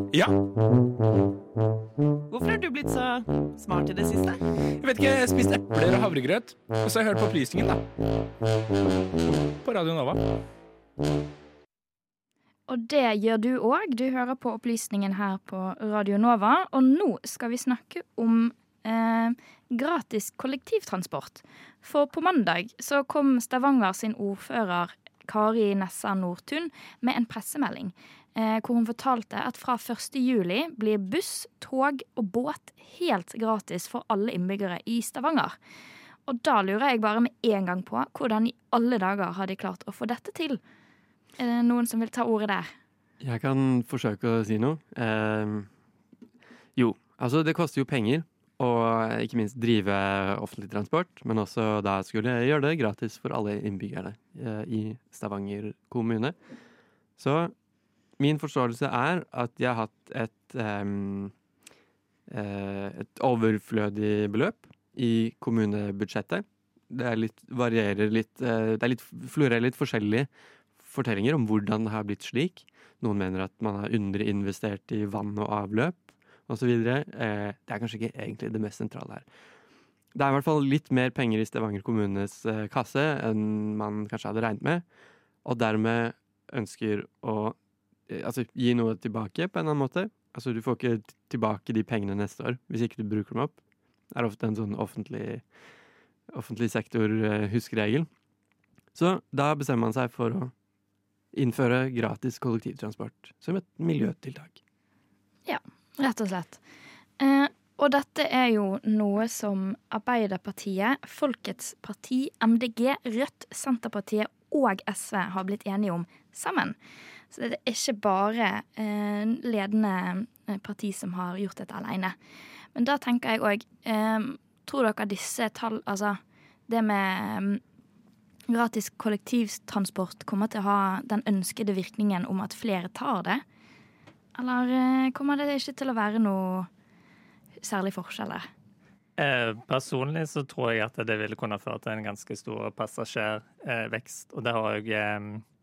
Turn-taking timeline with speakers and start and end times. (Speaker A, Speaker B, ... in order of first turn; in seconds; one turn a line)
Speaker A: 0.1-0.3
Speaker B: 2.3-4.4
Speaker A: 4.8-7.8
Speaker A: 9.5-10.2
Speaker C: 12.7-35.5
Speaker C: 36.2-40.6
Speaker C: 41.4-42.7
Speaker D: 43.2-45.7
Speaker D: 46.8-56.3
Speaker D: 57.2-57.5
Speaker D: 58.2-61.3
Speaker D: 62.3-79.2
Speaker D: 80.1-84.8
Speaker D: 85.4-87.5
Speaker D: 88.1-93.6
Speaker D: 94.1-95.4
Speaker D: 96.3-98.1
Speaker D: 98.9-100.5
Speaker D: 101.3-104.6
Speaker C: 105.5-106.6
Speaker C: 107.2-116.8
Speaker C: 117.3-122.2
Speaker C: 122.7-127.6
Speaker C: 128.5-133.4
Speaker C: 134.3-136.7
Speaker C: 137.6-138.4
Speaker E: 139.2-145.4